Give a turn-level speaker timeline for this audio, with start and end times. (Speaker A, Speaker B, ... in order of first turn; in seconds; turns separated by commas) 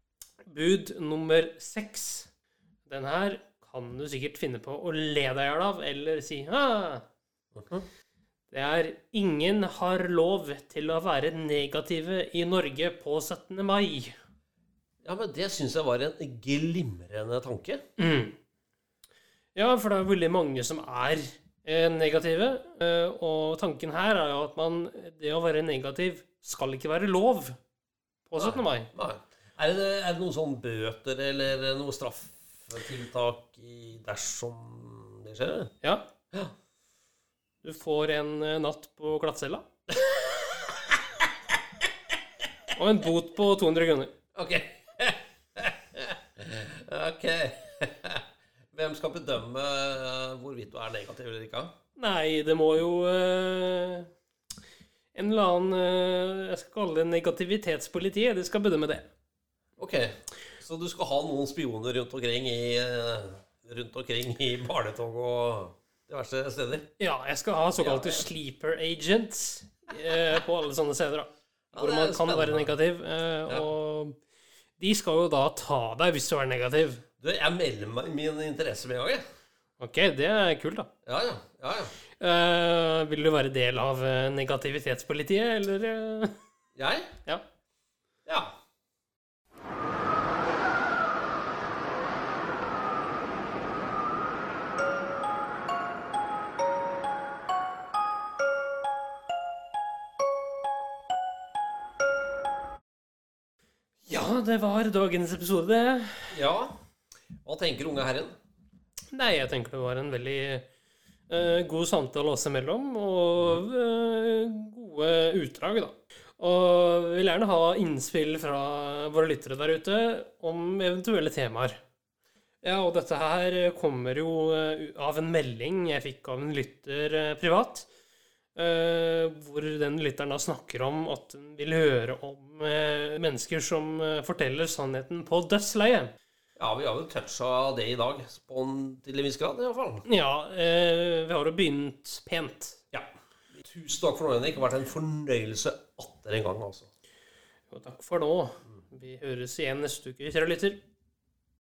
Speaker A: 0.5-2.3, Speaker A: 2.9-7.0, Speaker B: 7.5-7.9, Speaker A: 8.5-14.1, Speaker B: 15.0-17.8, Speaker A: 18.0-18.4, Speaker A: 19.6-27.6, Speaker A: 28.3-28.9, Speaker B: 28.4-35.7, Speaker A: 37.6-39.7, Speaker A: 42.8-44.1, Speaker B: 44.4-48.2, Speaker B: 48.7-51.8, Speaker A: 52.0-54.1, Speaker A: 55.1-59.1, Speaker B: 59.8-66.9, Speaker A: 67.0-74.2, Speaker B: 67.8-68.2, Speaker B: 71.7-72.7, Speaker A: 74.8-77.0, Speaker B: 77.2-79.2, Speaker A: 79.8-80.9, Speaker B: 81.1-81.9, Speaker A: 82.2-86.4, Speaker B: 86.8-87.1, Speaker B: 88.3-88.5, Speaker A: 104.1-106.3, Speaker B: 106.3-106.8, Speaker B: 107.5-108.3, Speaker A: 109.1-110.7, Speaker A: 111.3-121.8, Speaker A: 122.6-127.9, Speaker A: 128.6-136.1, Speaker B: 136.6-140.1, Speaker A: 140.1-142.8, Speaker B: 142.9-146.9, Speaker A: 147.7-150.8